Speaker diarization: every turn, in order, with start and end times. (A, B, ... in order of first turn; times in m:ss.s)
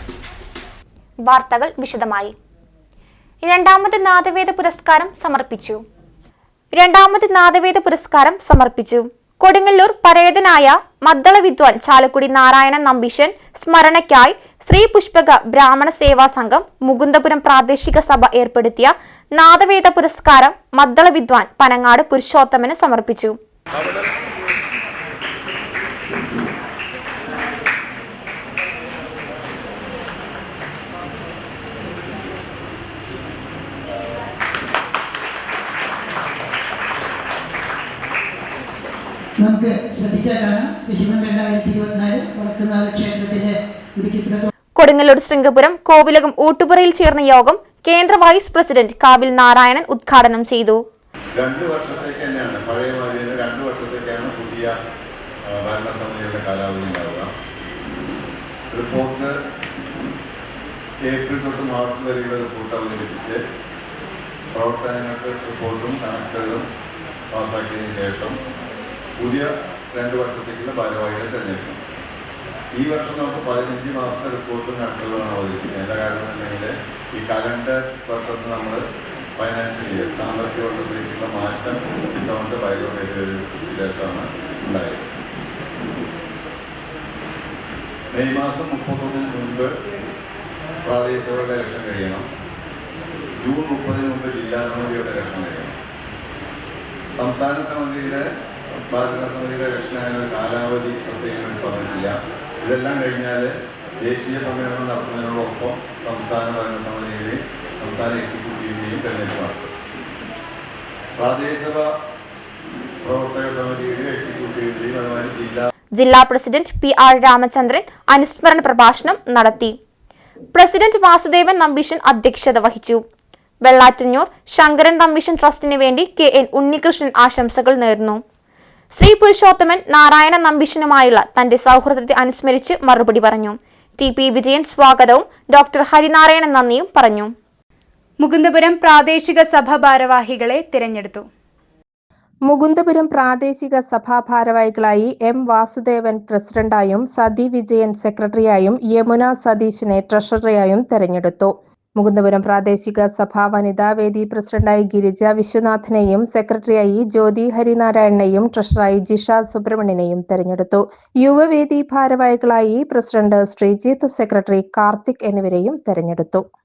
0:01.2-0:02.3 A
0:03.4-0:05.8 A
0:06.7-0:23.4 A
0:39.4-0:44.5 B
0:44.8-0:50.8 A
0:51.4-0:54.8 C
0:55.5-0:57.3 C
0:58.7-0:59.3 C
1:01.0-1:03.4 C
1:04.5-1:06.6 C
1:07.3-1:08.4 C
1:09.2-1:11.8 C
1:12.7-1:18.8 C
1:19.4-1:25.0 C
1:28.1-1:29.8 C
1:30.8-1:32.3 C
1:33.4-1:35.8 C
1:37.2-1:38.2 C
1:38.9-1:49.7 C
1:51.2-1:51.9 C
1:53.0-1:55.7 C
1:56.0-1:59.7 A
2:00.5-2:03.0 A
2:03.6-2:08.2 A
2:08.9-2:17.3 A
2:18.2-2:21.3 D
2:22.5-2:46.4 E